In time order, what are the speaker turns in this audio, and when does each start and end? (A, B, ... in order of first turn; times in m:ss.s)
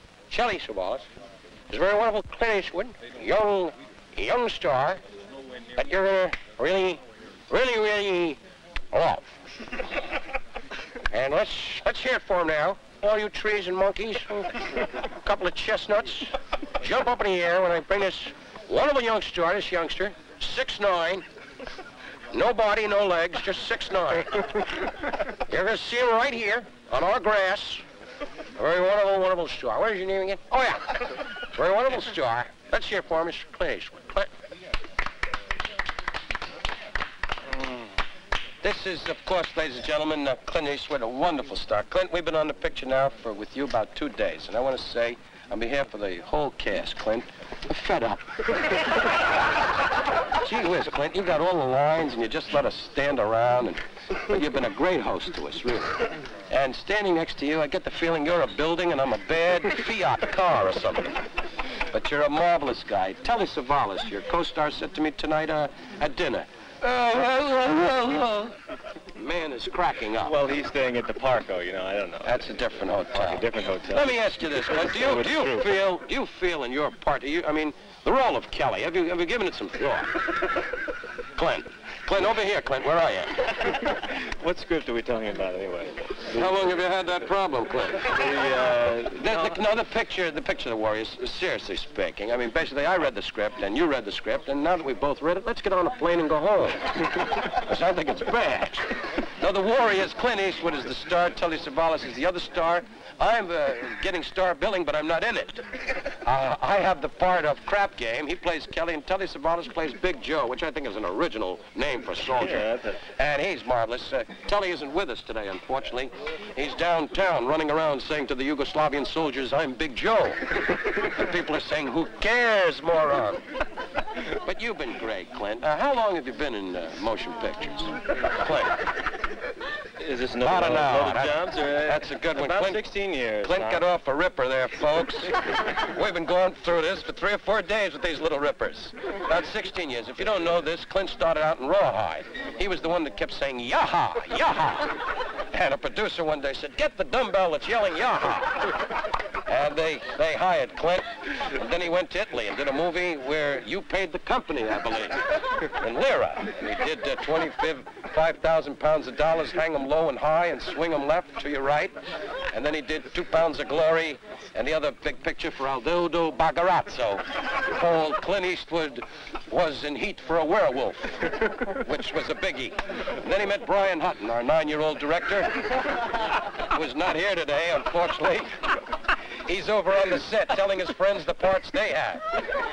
0:00.3-0:01.0 A
0:01.7-0:05.0 A
0:05.7-0:08.4 A
0:08.9-0:09.2 A
0:11.1-0:21.2 A
0:22.3-0:24.5 A
0:25.4-0:27.8 A
0:28.6-0:34.3 A
0:38.6-0:48.4 A
0:50.4-1:01.1 A
1:01.9-1:07.0 A
1:06.8-1:08.5 B
1:09.1-1:10.4 A
1:10.2-1:12.4 B
1:12.2-1:20.2 A
1:13.1-1:15.7 B
1:21.4-1:23.7 A
1:23.7-1:26.6 B
1:26.3-1:28.3 A
1:28.0-1:29.6 B
1:29.1-1:45.6 A
1:46.2-2:03.4 A
1:52.4-1:53.0 B
2:04.3-2:08.9 A
2:10.0-2:13.8 B
2:10.4-2:12.8 A
2:13.4-2:28.8 A
2:29.4-2:42.0 A
2:42.5-2:56.0 A
2:56.6-2:58.7 A
2:59.4-3:02.5 A